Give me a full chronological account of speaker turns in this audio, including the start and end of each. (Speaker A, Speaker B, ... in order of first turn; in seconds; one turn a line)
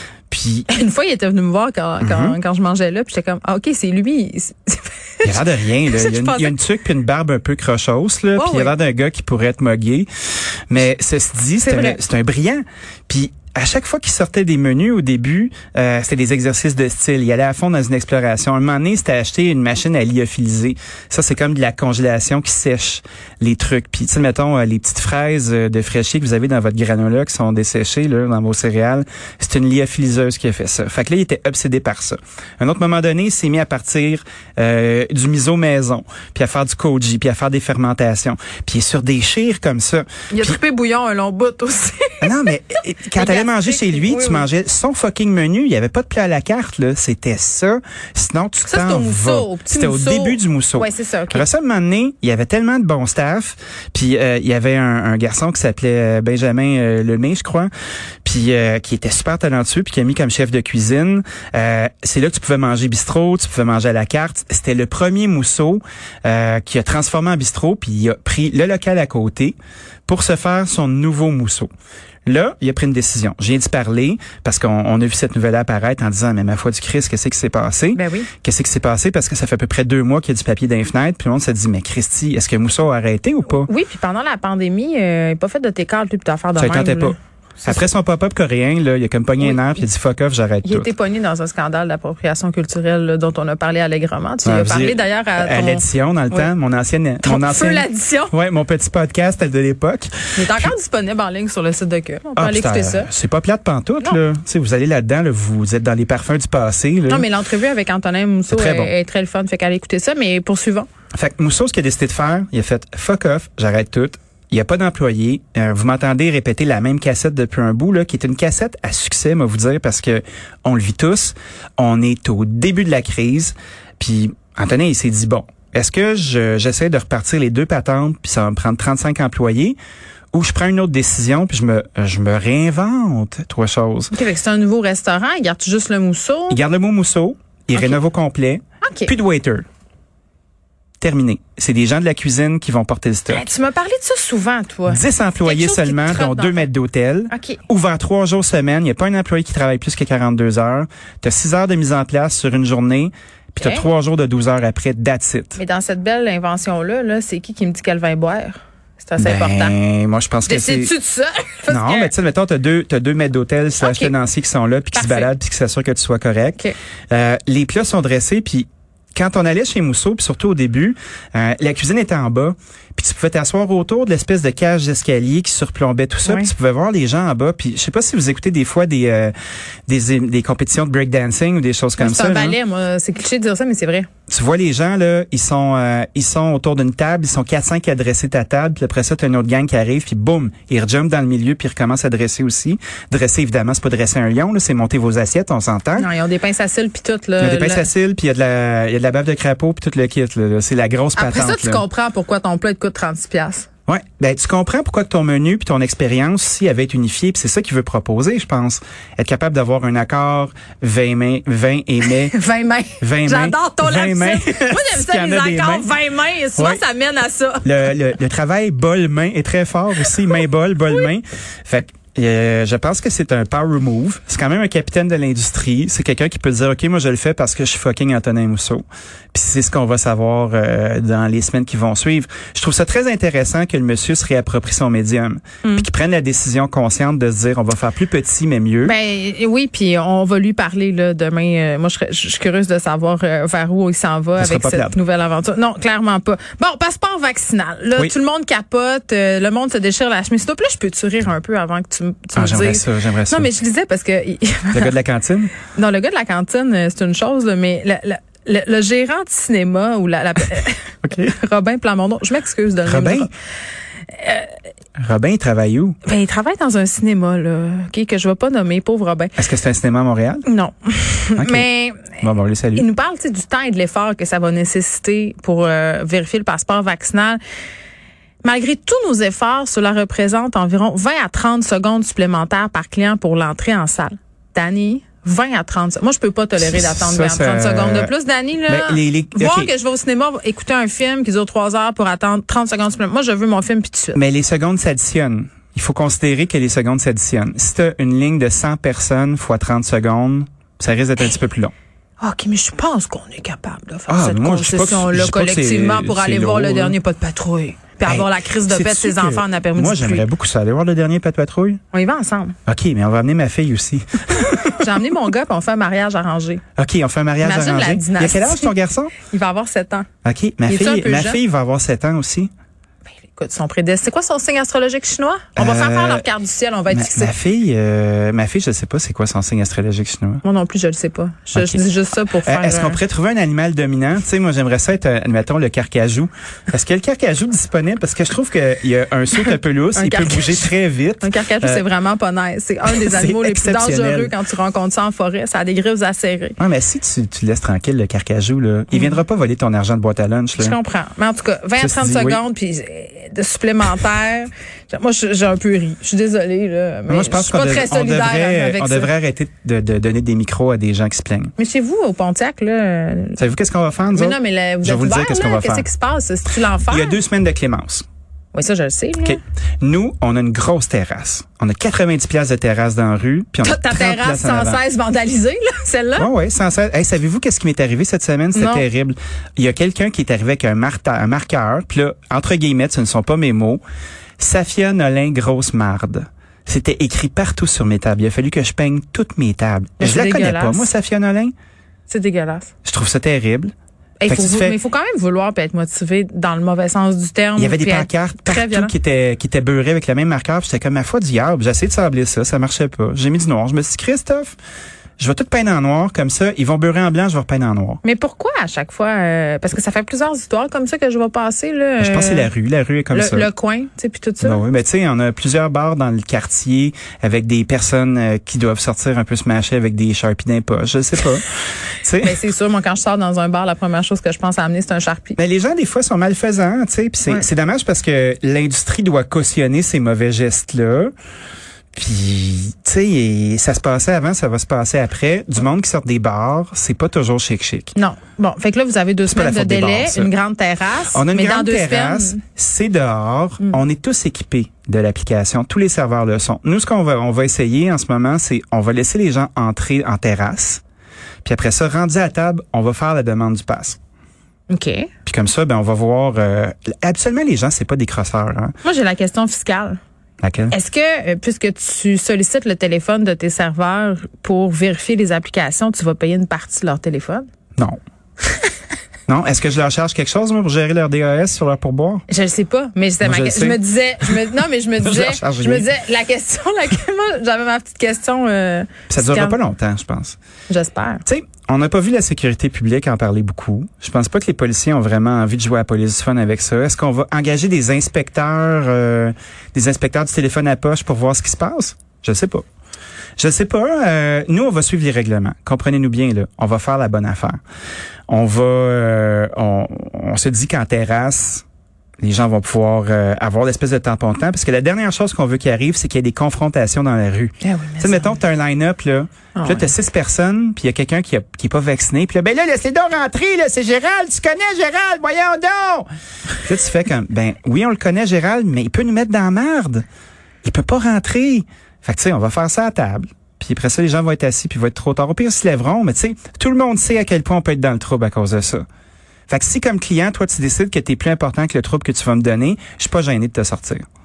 Speaker A: 0.3-0.7
Speaker B: 0.7-6.5
Speaker A: 2.0-2.4
Speaker A: 5.2-10.1
Speaker B: 8.4-8.7
Speaker A: 10.7-40.6
Speaker B: 11.6-12.0
Speaker B: 40.3-42.3
Speaker A: 42.2-57.7
Speaker B: 43.1-44.5
Speaker B: 48.6-51.5
Speaker A: 58.2-69.6
Speaker A: 70.1-71.7
Speaker A: 72.3-83.7
Speaker B: 78.0-78.3
Speaker B: 83.5-87.8
Speaker A: 86.5-90.9
Speaker B: 89.4-89.7
Speaker B: 90.6-96.5
Speaker A: 94.5-100.7
Speaker B: 97.2-98.3
Speaker B: 100.4-103.1
Speaker A: 102.4-107.3
Speaker B: 107.1-110.9
Speaker A: 108.5-108.9
Speaker A: 111.1-129.8
Speaker A: 130.3-134.1
Speaker B: 134.1-136.6
Speaker A: 136.5-139.6
Speaker B: 138.8-139.1
Speaker A: 141.0-143.5
Speaker B: 143.3-146.7
Speaker A: 144.9-155.6
Speaker B: 147.3-147.6
Speaker B: 153.6-153.8
Speaker B: 155.6-159.8
Speaker A: 159.2-160.9
Speaker B: 160.5-162.1
Speaker A: 161.7-166.6
Speaker B: 163.8-164.1
Speaker B: 164.9-165.3
Speaker A: 167.1-179.3
Speaker A: 179.9-182.6
Speaker B: 182.0-184.1
Speaker A: 184.3-196.1
Speaker B: 196.0-197.9
Speaker A: 197.4-201.8
Speaker B: 201.2-203.7
Speaker A: 203.9-212.3
Speaker B: 212.3-217.7
Speaker A: 213.0-215.9
Speaker A: 216.6-216.8
Speaker A: 217.6-238.9
Speaker B: 238.8-254.9
Speaker A: 244.4-245.0
Speaker A: 252.4-253.5
Speaker A: 254.7-255.6
Speaker B: 255.6-263.3
Speaker A: 261.1-261.3
Speaker A: 262.9-263.3
Speaker B: 264.1-264.6
Speaker A: 265.0-266.0
Speaker B: 266.0-269.3
Speaker A: 269.4-270.4
Speaker B: 270.5-272.2
Speaker A: 271.4-272.9
Speaker B: 272.8-277.4
Speaker B: 278.4-294.2
Speaker A: 286.6-288.1
Speaker A: 288.7-289.7
Speaker A: 294.1-301.7
Speaker B: 302.2-310.3
Speaker A: 304.1-307.0
Speaker A: 308.1-311.8
Speaker B: 311.9-312.6
Speaker A: 312.7-315.0
Speaker B: 314.8-316.6
Speaker A: 316.8-319.1
Speaker B: 317.4-320.1
Speaker A: 320.2-322.5
Speaker B: 320.7-321.4
Speaker B: 323.3-327.3
Speaker A: 325.6-326.3
Speaker A: 326.9-330.4
Speaker B: 330.4-333.0
Speaker A: 331.5-331.9
Speaker A: 332.4-341.8
Speaker B: 340.0-340.7
Speaker B: 341.2-346.6
Speaker A: 342.9-344.3
Speaker A: 346.6-350.8
Speaker B: 348.9-349.2
Speaker B: 350.6-359.1
Speaker A: 351.8-352.4
Speaker A: 357.1-361.5
Speaker B: 361.6-363.4
Speaker A: 363.4-365.9
Speaker B: 364.1-367.2
Speaker A: 366.9-368.1
Speaker B: 368.5-369.4
Speaker A: 369.2-374.8
Speaker B: 373.6-376.3
Speaker A: 376.2-383.8
Speaker B: 378.6-378.9
Speaker A: 384.4-391.5
Speaker B: 390.0-390.9
Speaker B: 392.1-392.7
Speaker A: 392.9-393.7
Speaker B: 394.2-398.9
Speaker A: 394.3-394.8
Speaker A: 397.6-404.6
Speaker A: 405.2-408.0
Speaker B: 408.0-412.5
Speaker A: 412.0-413.5
Speaker B: 413.1-414.6
Speaker A: 414.4-421.4
Speaker A: 422.0-422.4
Speaker B: 422.2-425.4
Speaker A: 425.4-431.1
Speaker A: 431.9-437.9
Speaker B: 437.9-442.4
Speaker A: 439.3-440.3
Speaker A: 441.1-450.8
Speaker A: 451.4-454.0
Speaker B: 454.7-455.1
Speaker A: 455.3-458.7
Speaker B: 458.8-460.0
Speaker A: 460.4-460.7
Speaker B: 460.7-467.4
Speaker A: 469.3-472.2
Speaker B: 472.3-479.6
Speaker A: 473.2-474.3
Speaker A: 475.0-475.9
Speaker A: 479.1-480.4
Speaker B: 480.7-481.2
Speaker A: 481.3-492.6
Speaker A: 493.4-497.6
Speaker A: 498.3-501.6
Speaker A: 502.2-516.1
Speaker B: 507.6-508.4
Speaker B: 509.6-509.9
Speaker A: 516.6-520.0
Speaker A: 520.6-528.9
Speaker A: 529.5-534.0